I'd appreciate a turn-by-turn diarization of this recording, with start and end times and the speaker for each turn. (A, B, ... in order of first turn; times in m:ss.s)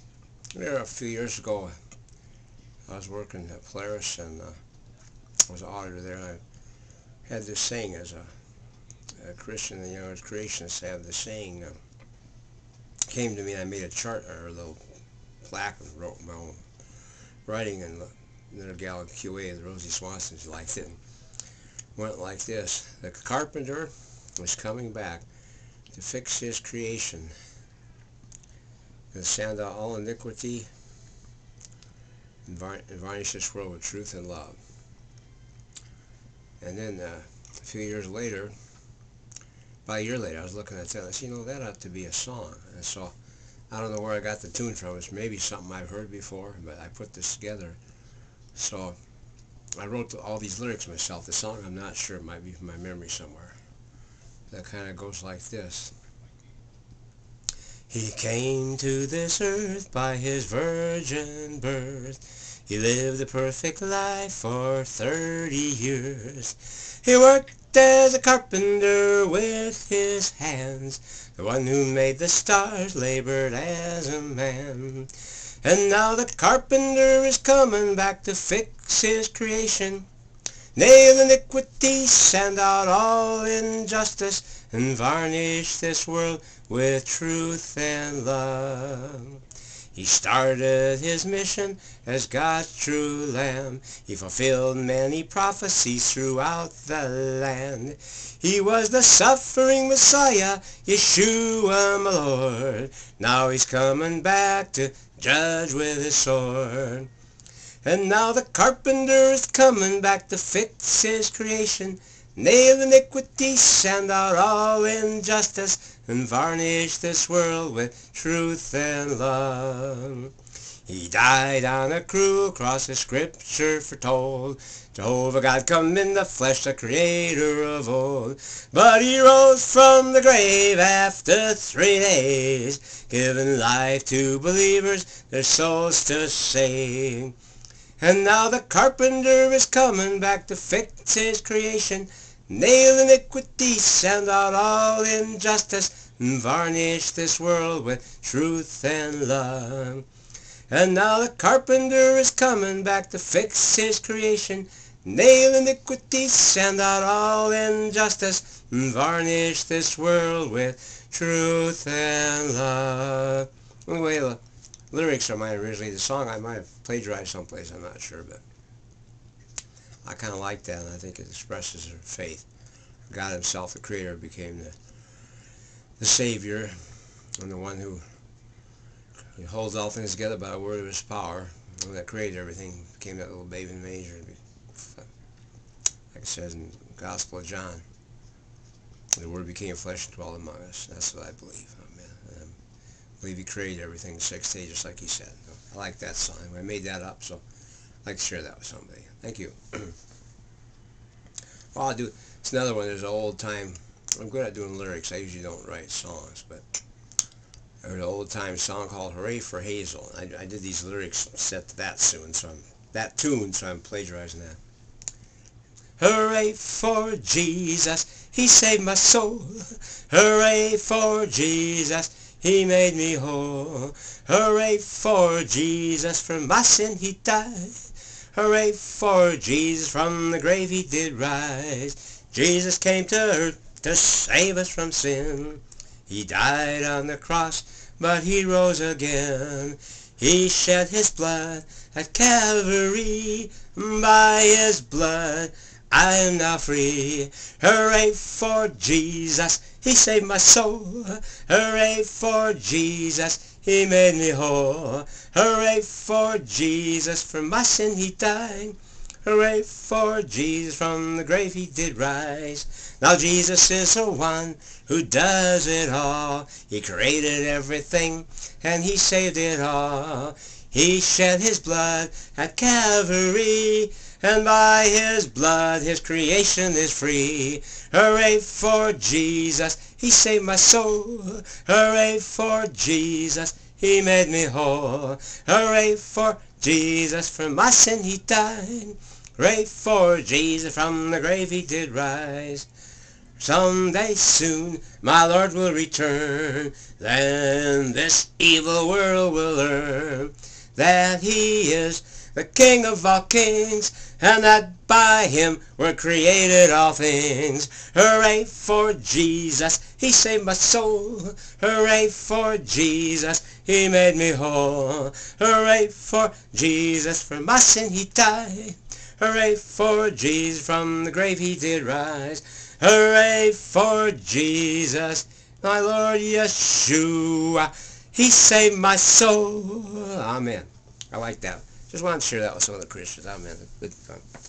0:00.5-0:01.7 A
0:02.9-0:04.6 A
0:05.5-0:06.4 A
0:07.3-0:08.3 A
0:09.2-0:11.8 A
0:13.1-0:14.8 A
0:15.4-0:16.6 A
0:17.4-0:21.0 A
0:22.0-0:25.2 A
0:25.9-0:27.3 A
0:29.1-0:30.7 A
0:32.5-0:34.6 A
0:36.6-0:38.5 A
0:39.8-0:43.1 A
0:43.7-0:47.8 A
0:48.5-0:49.0 A
0:49.8-0:53.5 A
0:54.5-0:55.9 A
0:57.9-1:15.1 A
1:15.6-1:20.0 A
1:20.8-1:29.4 A
1:29.9-1:47.1 A
1:47.8-2:00.3 A
2:00.8-2:17.3 A
2:18.0-2:30.0 A
2:30.7-2:44.4 A
2:44.9-2:48.4 A
2:50.0-2:52.4 A
2:53.1-2:54.7 A
2:56.0-2:56.8 A
2:57.4-2:58.0 A
2:59.4-3:05.0 A
3:06.1-3:07.8 A
3:09.1-3:12.6 A
3:13.2-3:17.4 A
3:18.0-3:19.9 A
3:21.7-3:26.6 A
3:27.8-3:34.6 A
3:36.0-4:52.7 A
4:53.4-5:34.2 A